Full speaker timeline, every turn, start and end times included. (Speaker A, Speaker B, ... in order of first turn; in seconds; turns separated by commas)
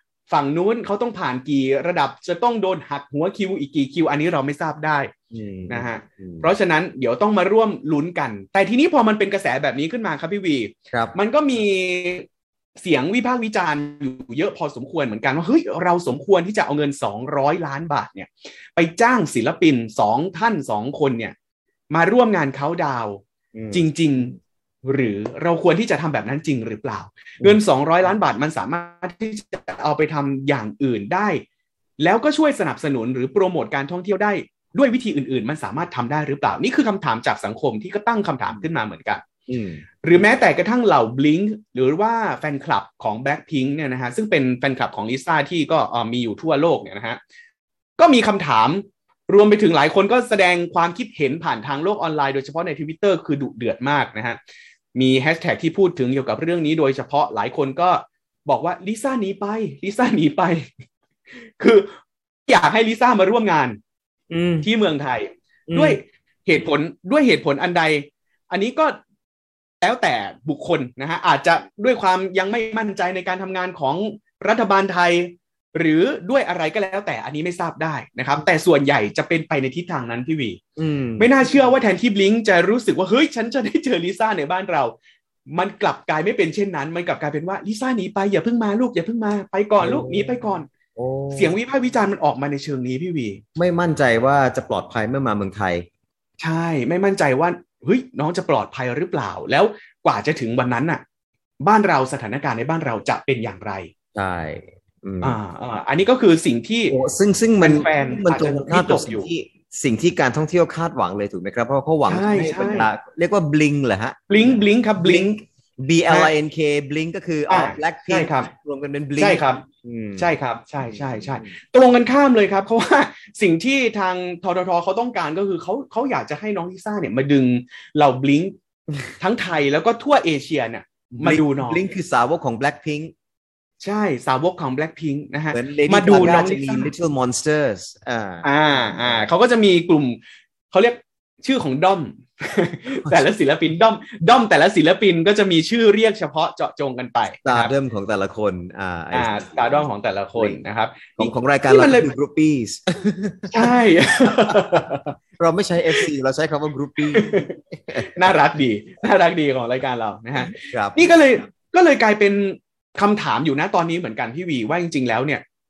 Speaker A: 0.3-5.1, Speaker B: 5.3-6.5, Speaker A: 5.7-12.3, Speaker A: 12.8-21.4, Speaker A: 21.9-31.4, Speaker B: 23.6-23.8, Speaker A: 32.0-39.2, Speaker B: 39.5-40.2, Speaker A: 40.0-47.2, Speaker A: 48.0-54.4, Speaker A: 54.9-60.7, Speaker A: 61.6-61.9, Speaker A: 62.5-63.8, Speaker B: 64.3-64.7, Speaker A: 64.6-69.0, Speaker B: 65.7-66.0, Speaker A: 69.8-80.6, Speaker B: 80.8-81.3, Speaker A: 81.2-85.0, Speaker A: 85.5-90.7, Speaker B: 89.8-90.4, Speaker B: 91.0-91.5, Speaker A: 91.3-93.4, Speaker B: 93.6-95.9, Speaker A: 96.4-101.0, Speaker A: 101.6-103.9, Speaker B: 104.2-105.4, Speaker A: 105.2-107.0, Speaker B: 106.9-120.3, Speaker A: 107.6-109.3, Speaker A: 112.1-112.9, Speaker A: 114.3-115.4, Speaker A: 116.1-116.3, Speaker A: 117.5-118.5, Speaker A: 119.2-119.6, Speaker A: 120.2-128.5, Speaker B: 120.8-121.5, Speaker A: 129.2-131.8, Speaker B: 131.2-133.1, Speaker A: 133.8-136.9, Speaker B: 135.5-139.3, Speaker A: 138.4-140.2, Speaker A: 140.7-147.7, Speaker B: 147.4-150.6, Speaker A: 149.1-152.1, Speaker B: 151.2-153.7, Speaker A: 153.5-155.1, Speaker B: 154.5-154.8, Speaker B: 155.4-158.3, Speaker A: 157.1-165.4, Speaker B: 160.4-161.2